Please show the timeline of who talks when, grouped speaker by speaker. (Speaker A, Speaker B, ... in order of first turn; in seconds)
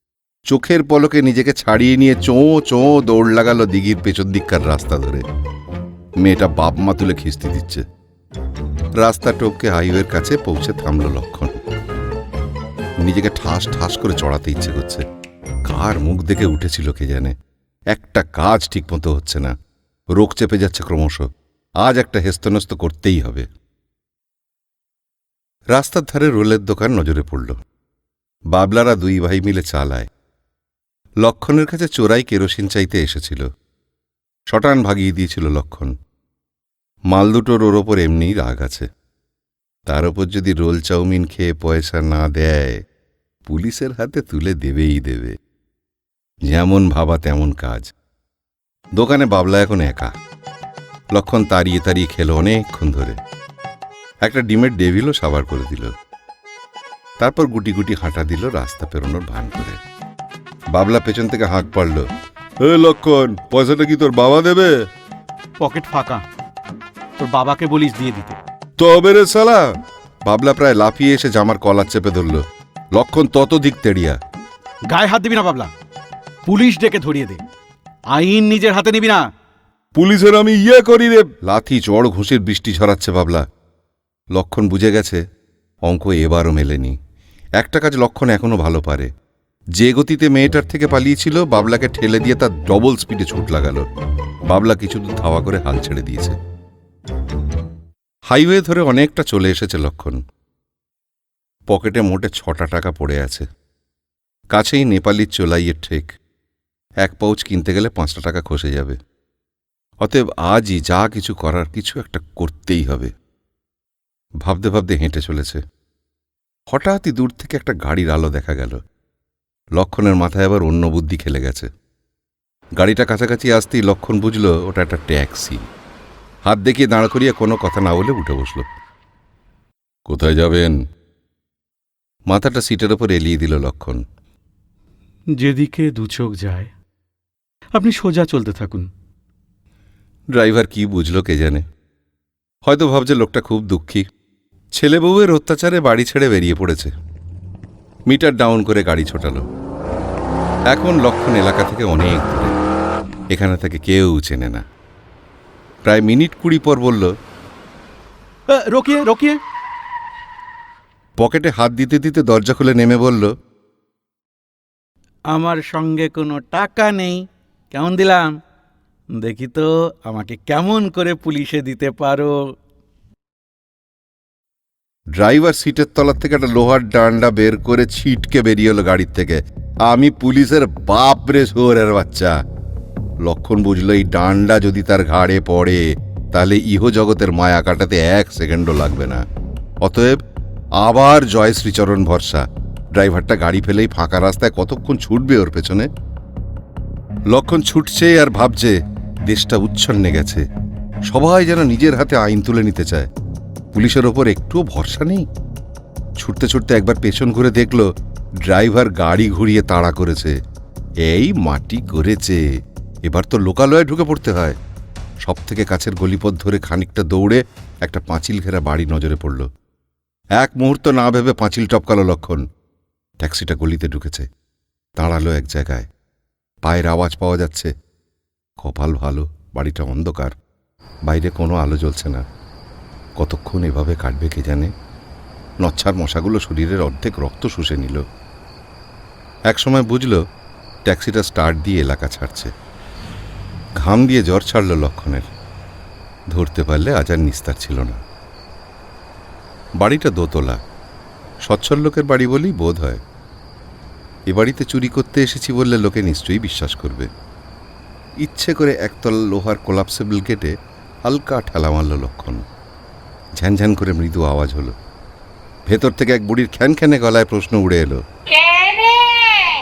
Speaker A: 0.5-5.2, 6.2-7.8, 9.0-11.6, 13.0-15.0, 15.6-17.3, 17.9-19.5, 20.1-21.3, 21.8-23.5, 25.7-27.6, 28.5-30.1, 31.2-33.5, 34.5-35.9, 37.1-38.9, 39.9-42.8, 43.5-45.3, 46.5-47.9, 49.0-50.1, 51.1-53.2, 54.2-55.9, 57.2-59.8, 60.7-62.1, 62.6-64.7, 68.8-69.7, 70.2-74.2, 80.0-83.4, 84.3-85.2, 85.8-87.0, 87.6-89.1, 89.8-93.9, 94.5-96.4, 98.3-100.2, 101.7-103.5, 104.5-106.1, 107.0-109.0, 110.0-113.1, 114.4-115.6, 116.7-118.8, 119.8-121.7, 122.8-125.6, 126.5-128.7, 130.1-130.8, 132.3-134.0, 140.3-141.6, 142.6-144.0, 144.8-146.9, 148.1-149.4, 150.7-152.6, 153.3-154.6, 155.9-157.1, 161.2-163.3, 175.1-182.3, 183.2-189.2, 189.8-190.2, 190.8-195.9, 197.3-200.4, 201.1-203.1, 203.7-205.3, 206.2-207.9, 208.4-210.4, 211.0-212.4, 213.1-214.6, 215.2-219.5, 220.4-222.4, 223.2-224.3, 225.0-225.9, 226.6-227.7, 228.6-230.3, 231.1-232.2, 233.2-234.7, 235.6-238.0, 239.5-240.2, 240.9-242.5, 243.8-245.3, 246.3-248.0, 249.8-250.6, 251.4-253.0, 254.3-257.1, 258.2-260.5, 261.1-262.4, 263.4-264.7, 265.7-268.0
Speaker B: 65.6-66.2, 67.2-68.4, 74.9-75.7, 76.5-77.4, 78.1-79.2, 135.4-136.7, 137.7-138.9, 158.5-159.4, 166.0-166.5, 167.8-168.2, 169.3-169.6, 170.2-172.3
Speaker C: 165.3-167.2, 167.8-168.2, 169.2-172.2